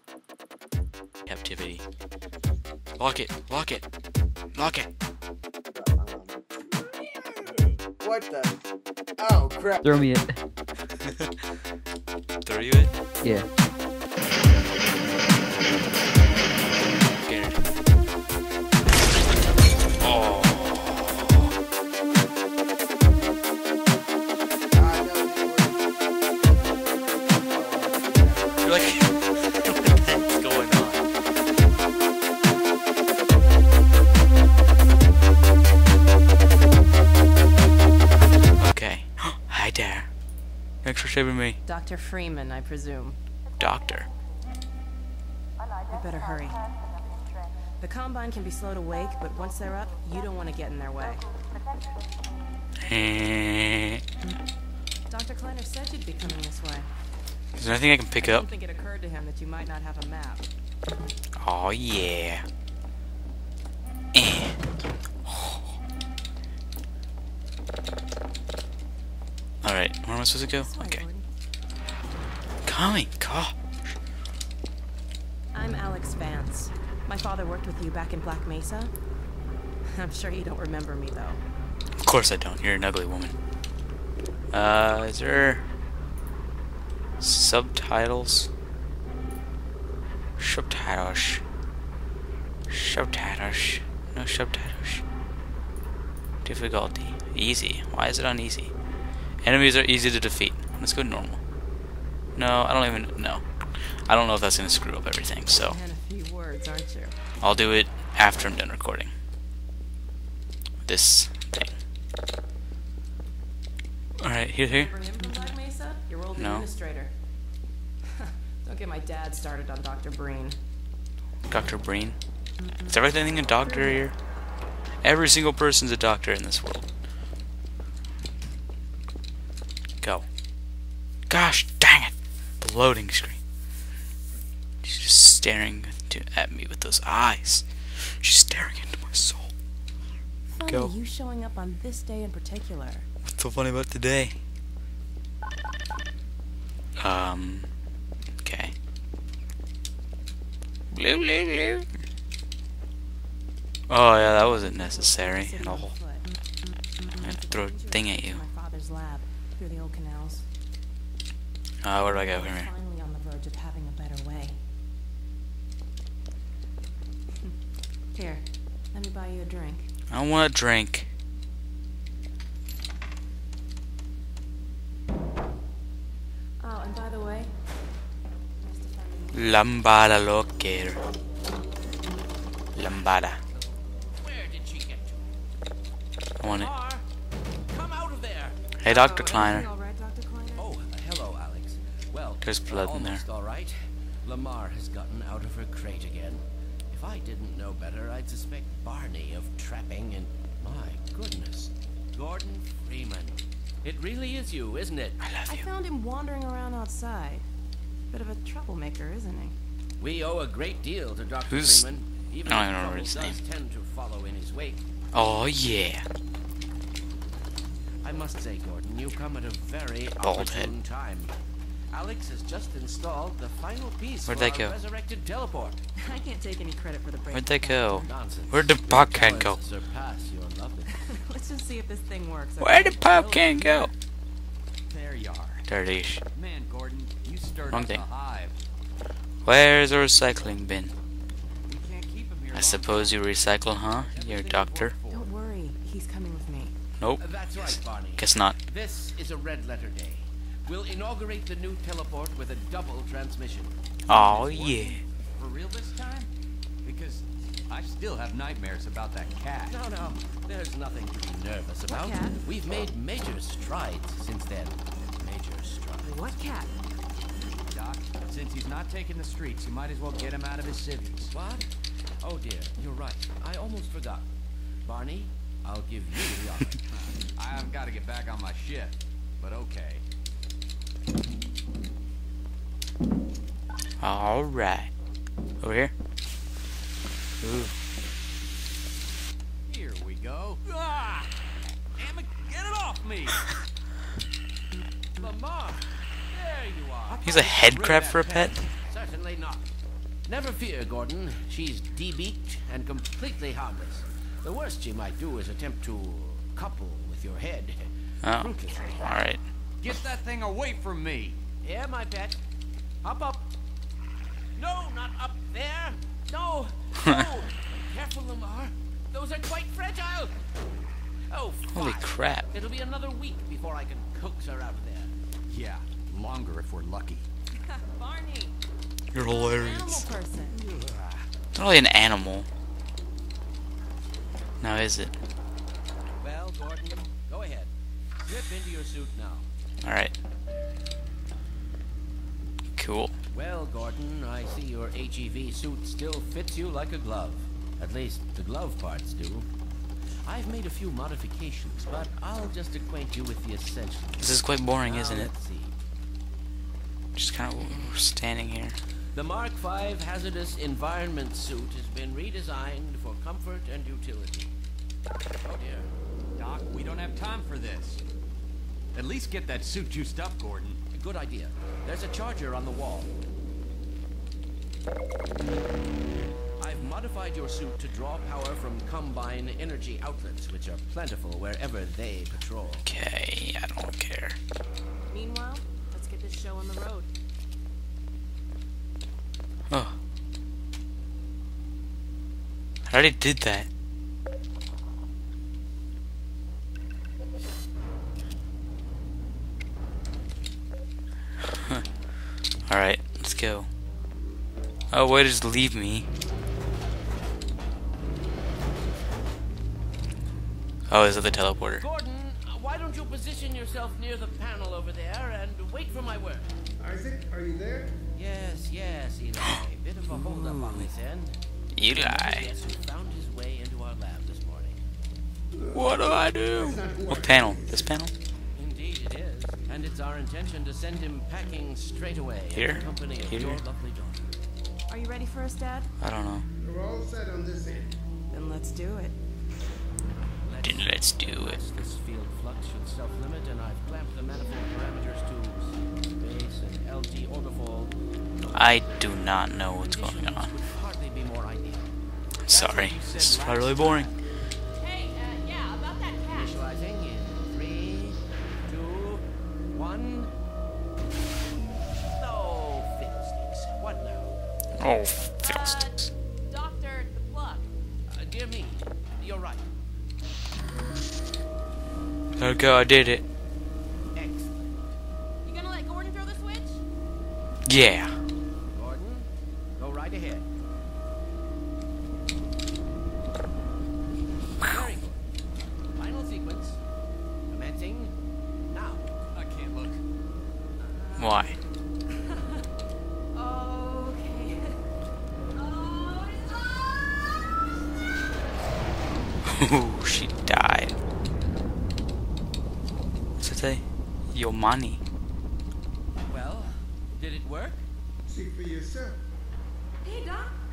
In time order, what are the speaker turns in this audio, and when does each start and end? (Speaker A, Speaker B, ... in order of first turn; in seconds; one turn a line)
Speaker A: 1.3-1.9
Speaker A: 3.0-3.9
Speaker A: 4.5-4.9
Speaker B: 5.8-6.4
Speaker B: 8.0-8.5
Speaker B: 9.2-9.8
Speaker A: 11.0-11.4
Speaker A: 12.4-12.9
Speaker A: 17.2-17.6
Speaker A: 20.0-21.5
Speaker B: 24.7-25.8
Speaker B: 27.4-28.7
Speaker A: 28.6-31.0
Speaker A: 38.6-40.1
Speaker A: 40.8-41.6
Speaker C: 41.6-43.2
Speaker A: 43.6-44.1
Speaker C: 45.9-46.6
Speaker C: 47.8-51.2
Speaker A: 52.8-54.0
Speaker C: 55.1-56.9
Speaker A: 57.6-58.5
Speaker C: 58.2-60.5
Speaker A: 61.4-62.5
Speaker A: 64.1-64.6
Speaker A: 65.3-65.6
Speaker A: 69.6-71.0
Speaker C: 70.6-71.2
Speaker A: 72.7-73.5
Speaker C: 75.5-78.9
Speaker C: 79.9-81.4
Speaker A: 82.0-83.3
Speaker A: 84.5-85.6
Speaker A: 87.2-88.5
Speaker A: 90.4-91.4
Speaker A: 92.7-95.0
Speaker A: 96.5-98.7
Speaker A: 99.4-101.4
Speaker A: 102.3-103.4
Speaker A: 104.1-105.8
Speaker C: 105.6-107.2
Speaker A: 107.4-109.1
Speaker A: 110.8-111.8
Speaker A: 114.2-114.9
Speaker C: 114.5-117.1
Speaker A: 116.4-116.7
Speaker C: 118.1-120.6
Speaker A: 121.5-122.2
Speaker A: 122.9-124.2
Speaker A: 125.0-126.9
Speaker A: 130.0-130.3
Speaker A: 131.3-133.4
Speaker A: 134.8-139.5
Speaker C: 140.5-143.1
Speaker A: 140.7-140.9
Speaker A: 143.2-144.4
Speaker A: 147.0-147.7
Speaker A: 148.4-148.7
Speaker A: 150.9-151.9
Speaker A: 153.9-155.9
Speaker C: 154.2-156.2
Speaker A: 157.2-158.4
Speaker C: 157.2-160.4
Speaker A: 161.8-162.7
Speaker C: 162.0-164.6
Speaker C: 168.1-169.9
Speaker A: 170.1-171.1
Speaker C: 176.6-177.5
Speaker C: 178.6-179.7
Speaker A: 179.3-181.0
Speaker A: 182.8-183.4
Speaker D: 184.2-185.3
Speaker A: 186.4-186.7
Speaker D: 186.4-187.1
Speaker D: 187.7-188.6
Speaker A: 188.8-189.7
Speaker C: 188.8-190.7
Speaker D: 190.6-205.2
Speaker A: 192.4-193.2
Speaker A: 205.2-205.7
Speaker C: 205.5-207.4
Speaker C: 208.1-209.6
Speaker D: 210.0-214.8
Speaker A: 211.5-211.8
Speaker A: 212.4-213.4
Speaker A: 215.1-216.1
Speaker D: 218.0-221.3
Speaker A: 220.2-220.7
Speaker D: 221.9-225.8
Speaker A: 224.3-224.8
Speaker C: 226.0-228.1
Speaker A: 227.3-229.6
Speaker D: 228.1-230.9
Speaker C: 230.9-233.1
Speaker A: 232.6-233.9
Speaker E: 233.1-233.9
Speaker E: 234.9-235.7
Speaker A: 235.7-236.2
Speaker E: 236.3-238.6
Speaker A: 237.7-238.1
Speaker A: 239.4-240.9
Speaker E: 241.7-243.2
Speaker A: 242.5-245.0
Speaker E: 243.9-245.3
Speaker C: 245.1-246.7
Speaker A: 247.0-248.6
Speaker D: 247.2-253.7
Speaker A: 254.1-255.0
Speaker E: 254.1-256.3
Speaker E: 256.8-259.8
Speaker D: 259.7-266.2
Speaker C: 261.9-262.4
Speaker C: 266.0-266.7
Speaker E: 267.7-271.3
Speaker D: 271.3-271.7
Speaker D: 272.2-274.3
Speaker D: 274.9-276.8
Speaker E: 276.9-280.0
Speaker A: 284.0-284.9
Speaker A: 285.6-285.9
Speaker A: 287.4-287.8
Speaker E: 289.7-291.3
Speaker E: 292.0-293.5
Speaker D: 295.2-299.7
Speaker E: 297.1-298.4
Speaker A: 297.2-298.6
Speaker D: 300.3-309.3
Speaker A: 308.2-309.4
Speaker E: 309.8-311.4
Speaker D: 311.6-312.4
Speaker D: 313.0-313.5
Speaker D: 314.6-320.3
Speaker D: 321.3-325.1
Speaker A: 321.7-322.5
Speaker E: 325.5-327.3
Speaker C: 327.6-328.6
Speaker A: 329.1-330.1
Speaker C: 329.1-330.6
Speaker E: 330.5-331.3
Speaker A: 331.6-332.5
Speaker A: 334.6-335.2
Speaker D: 336.2-337.7
Speaker D: 338.2-339.5
Speaker A: 339.8-340.1
Speaker A: 342.8-343.1
Speaker D: 343.3-349.5
Speaker D: 350.3-355.8
Speaker A: 354.2-355.3
Speaker A: 357.2-358.8
Speaker D: 359.1-364.5
Speaker D: 365.4-365.9
Speaker E: 366.4-368.0
Speaker E: 368.9-370.8
Speaker D: 370.9-373.1
Speaker D: 376.6-382.9
Speaker A: 382.9-384.4
Speaker C: 385.1-387.1
Speaker A: 389.7-390.0
Speaker A: 392.9-393.7
Speaker A: 402.7-403.7
Speaker A: 404.9-406.1
Speaker A: 410.9-411.8
Speaker D: 411.8-416.5
Speaker B: 416.8-418.0
Speaker D: 418.1-424.8
Speaker A: 420.3-420.8
Speaker A: 421.7-422.5
Speaker B: 425.5-427.9
Speaker A: 425.7-428.1
Speaker D: 428.6-434.3
Speaker A: 432.5-433.6
Speaker C: 434.9-435.9
Speaker A: 436.0-436.5
Speaker B: 436.6-437.9
Speaker C: 438.3-439.2
Speaker D: 440.4-451.9
Speaker A: 440.6-441.6
Speaker A: 448.5-450.5
Speaker A: 452.4-454.1
Speaker E: 452.5-454.2
Speaker C: 454.8-456.6
Speaker D: 456.3-460.3
Speaker D: 462.1-464.4
Speaker A: 464.8-466.0
Speaker C: 465.4-467.7
Speaker D: 468.1-469.7
Speaker A: 472.4-473.2
Speaker D: 474.1-474.9
Speaker C: 475.4-476.8
Speaker A: 477.7-478.2
Speaker D: 478.7-480.5
Speaker D: 484.6-485.2
Speaker D: 486.0-486.8
Speaker D: 487.5-488.1
Speaker D: 488.7-489.1
Speaker E: 489.3-490.0
Speaker C: 490.8-491.6
Speaker A: 491.2-491.6
Speaker C: 492.1-492.7
Speaker C: 493.3-494.8
Speaker C: 495.6-497.0
Speaker A: 499.5-501.0
Speaker A: 503.4-505.0
Speaker D: 506.3-507.9
Speaker B: 508.3-509.2
Speaker C: 510.0-510.5